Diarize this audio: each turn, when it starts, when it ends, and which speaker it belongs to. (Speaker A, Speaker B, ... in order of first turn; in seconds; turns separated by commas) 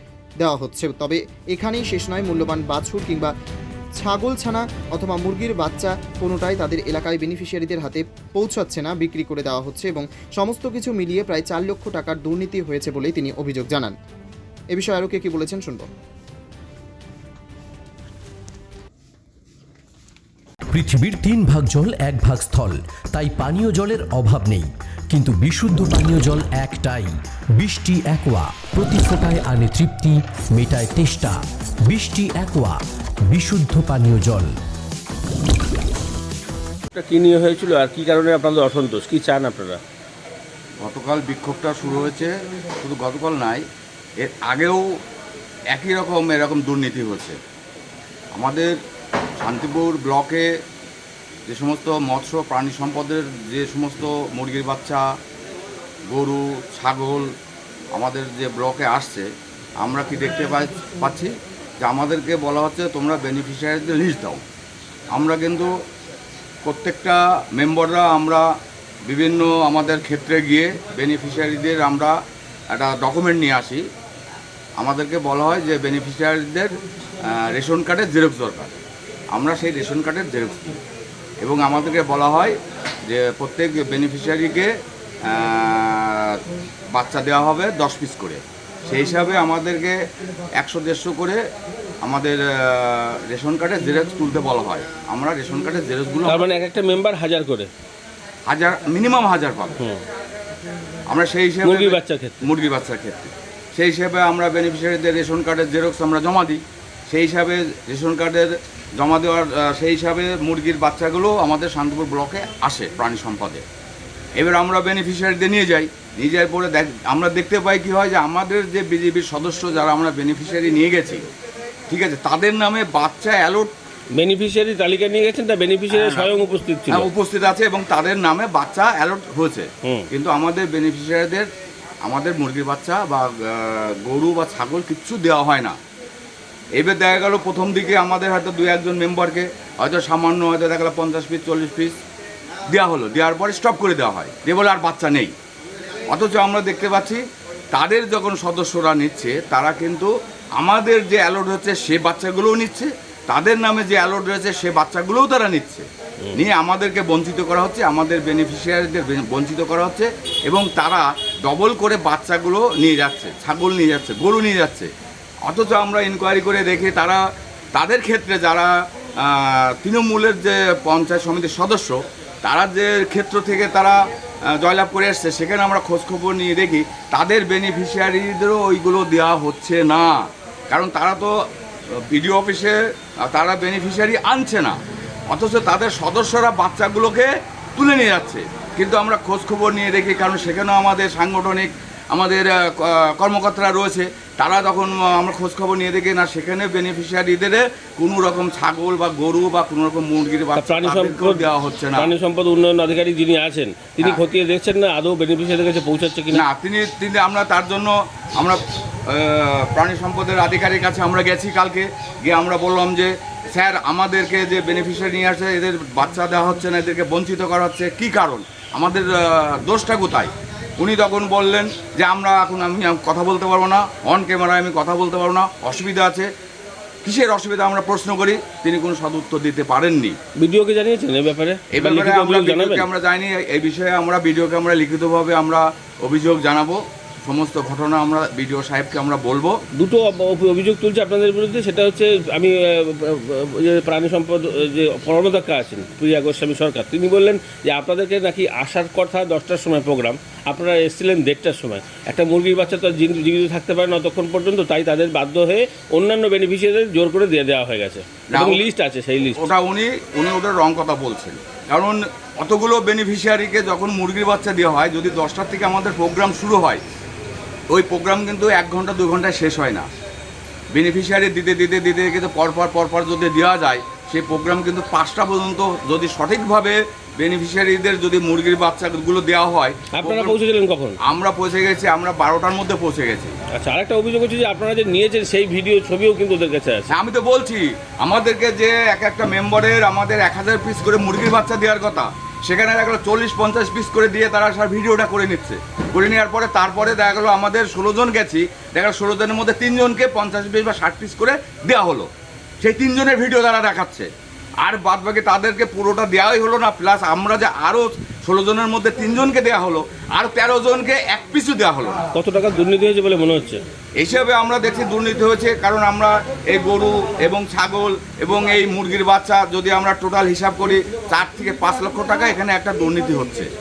Speaker A: 0.4-3.3, Speaker A: 4.0-13.9, Speaker A: 14.7-15.9, Speaker B: 20.7-31.3, Speaker B: 31.9-32.8, Speaker B: 33.3-34.5, Speaker C: 36.9-39.8, Speaker D: 40.8-42.3, Speaker D: 42.8-43.6, Speaker D: 44.2-44.8, Speaker D: 45.7-47.4, Speaker D: 48.3-48.7, Speaker D: 49.4-50.4, Speaker D: 51.5-55.0, Speaker D: 56.1-57.3, Speaker D: 57.9-59.3, Speaker D: 59.8-61.3, Speaker D: 61.8-64.4, Speaker D: 65.1-65.7, Speaker D: 66.6-68.4, Speaker D: 69.0-72.1, Speaker D: 72.7-73.8, Speaker D: 74.8-76.8, Speaker D: 77.3-78.8, Speaker D: 79.3-80.8, Speaker D: 81.4-82.5, Speaker D: 83.1-84.7, Speaker D: 85.3-86.4, Speaker D: 86.9-89.9, Speaker D: 90.6-91.4, Speaker D: 92.0-96.5, Speaker C: 96.3-97.7, Speaker D: 98.5-99.8, Speaker D: 101.1-113.6, Speaker C: 101.6-102.3, Speaker D: 114.4-121.3, Speaker D: 121.9-123.7, Speaker C: 124.2-127.1, Speaker D: 125.9-126.3, Speaker D: 126.9-131.5, Speaker D: 132.0-135.8, Speaker D: 136.8-141.9, Speaker D: 142.7-145.3, Speaker D: 146.1-147.2, Speaker D: 147.7-164.9, Speaker D: 165.4-167.2, Speaker D: 167.7-168.7, Speaker D: 169.4-173.9, Speaker D: 174.6-180.2, Speaker D: 180.7-181.3, Speaker D: 182.1-182.7, Speaker D: 183.3-184.8, Speaker D: 185.3-202.1, Speaker C: 200.6-206.4, Speaker D: 206.3-208.6, Speaker D: 209.1-226.3, Speaker D: 227.0-230.2, Speaker C: 230.4-232.9, Speaker D: 231.7-239.6, Speaker C: 239.8-259.5, Speaker D: 258.3-258.7, Speaker D: 259.3-266.8, Speaker D: 267.7-269.9, Speaker D: 270.7-280.4, Speaker C: 280.0-280.9, Speaker D: 281.1-283.3, Speaker C: 283.5-286.9, Speaker D: 286.9-302.1, Speaker D: 302.6-304.1, Speaker D: 304.6-312.0, Speaker C: 312.1-313.6, Speaker D: 314.0-323.5